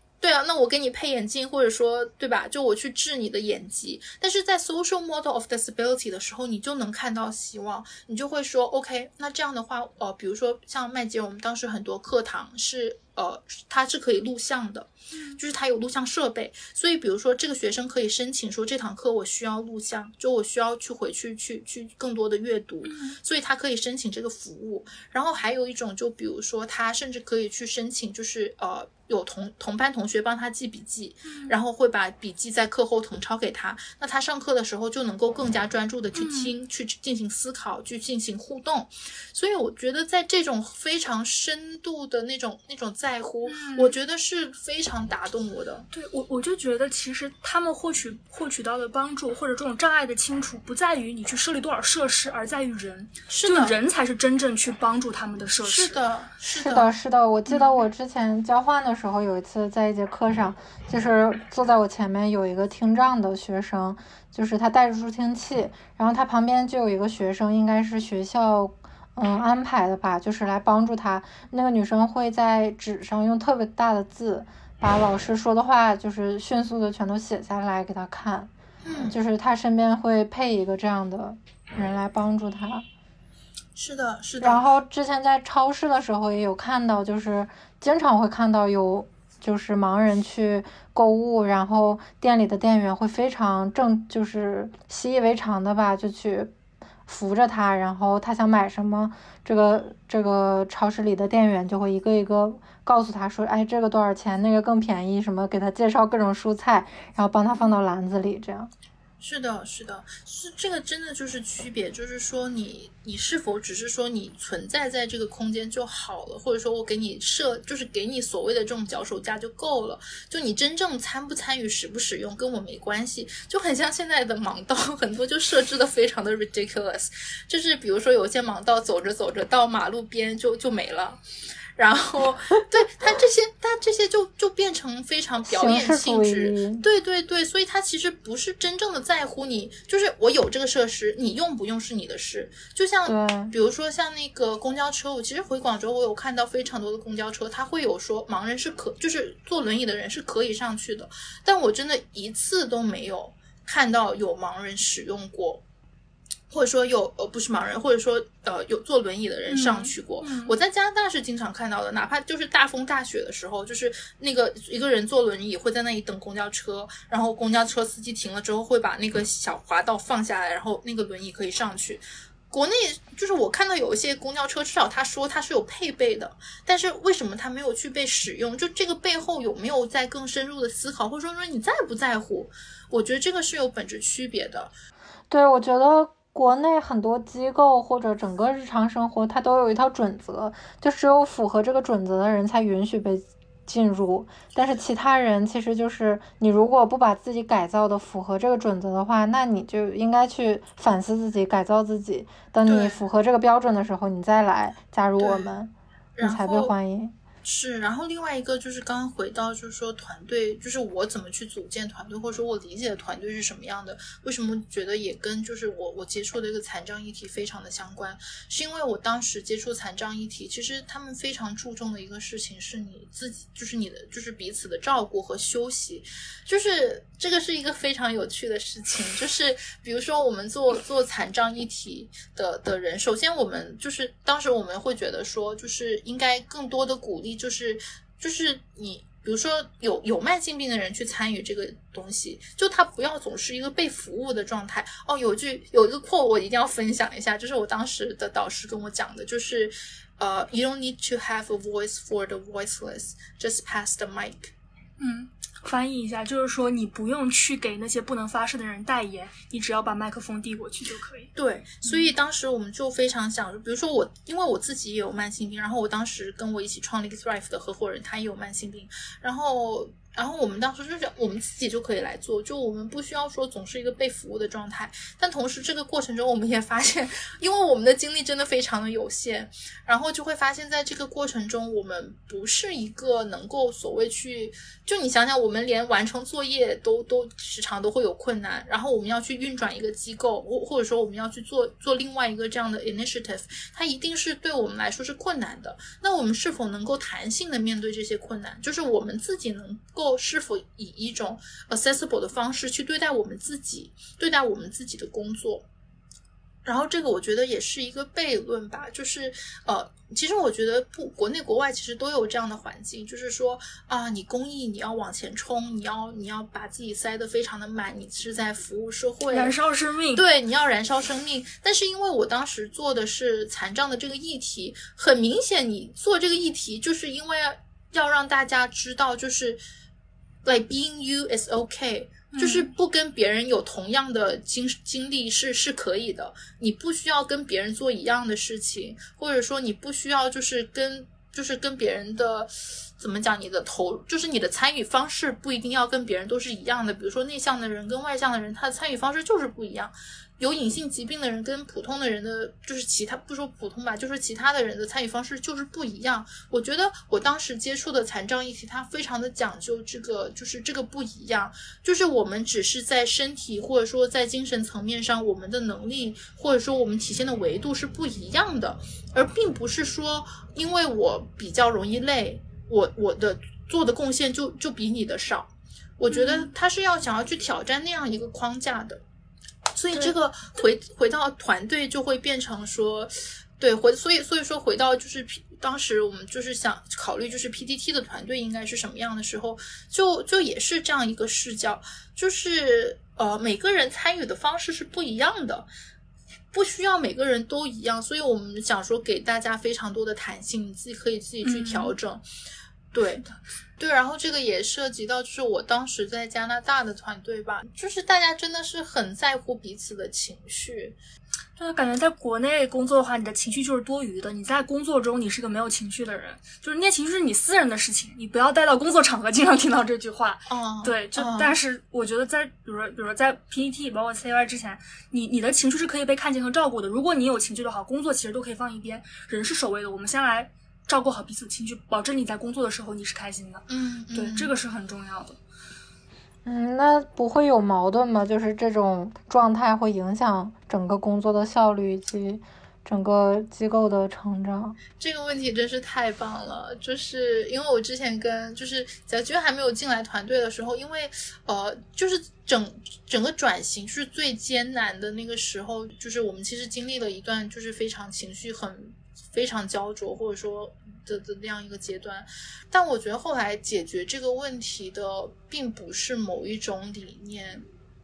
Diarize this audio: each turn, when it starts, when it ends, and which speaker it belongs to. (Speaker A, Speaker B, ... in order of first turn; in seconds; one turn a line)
Speaker A: 0.2-45.9
Speaker B: 15.1-15.4
Speaker B: 22.8-23.2
Speaker B: 31.3-31.6
Speaker B: 36.1-36.5
Speaker B: 43.4-43.9
Speaker B: 45.9-56.0
Speaker A: 53.3-53.8
Speaker A: 55.6-56.9
Speaker C: 56.5-78.5
Speaker B: 57.5-57.7
Speaker A: 78.8-79.2
Speaker C: 79.1-82.8
Speaker A: 83.8-84.7
Speaker C: 84.4-96.5
Speaker C: 97.1-108.7
Speaker A: 109.2-131.2
Speaker A: 131.8-155.6
Speaker C: 135.5-136.8
Speaker C: 143.1-143.5
Speaker A: 156.5-184.7
Speaker B: 159.5-160.6
Speaker C: 185.3-207.1
Speaker A: 202.7-203.0
Speaker A: 205.2-205.6
Speaker A: 206.2-206.7
Speaker A: 207.4-254.5
Speaker B: 255.0-262.1
Speaker A: 261.4-305.6
Speaker A: 306.6-319.6
Speaker B: 319.3-320.2
Speaker A: 320.1-329.6
Speaker A: 330.4-379.0
Speaker B: 332.3-332.7
Speaker B: 376.1-376.5
Speaker A: 379.7-395.7
Speaker A: 396.5-402.2
Speaker B: 401.4-401.9
Speaker A: 402.9-403.2
Speaker B: 403.1-403.4
Speaker A: 403.8-411.0
Speaker B: 411.6-435.4
Speaker A: 420.5-421.5
Speaker A: 433.7-434.5
Speaker C: 436.4-444.8
Speaker A: 445.0-467.6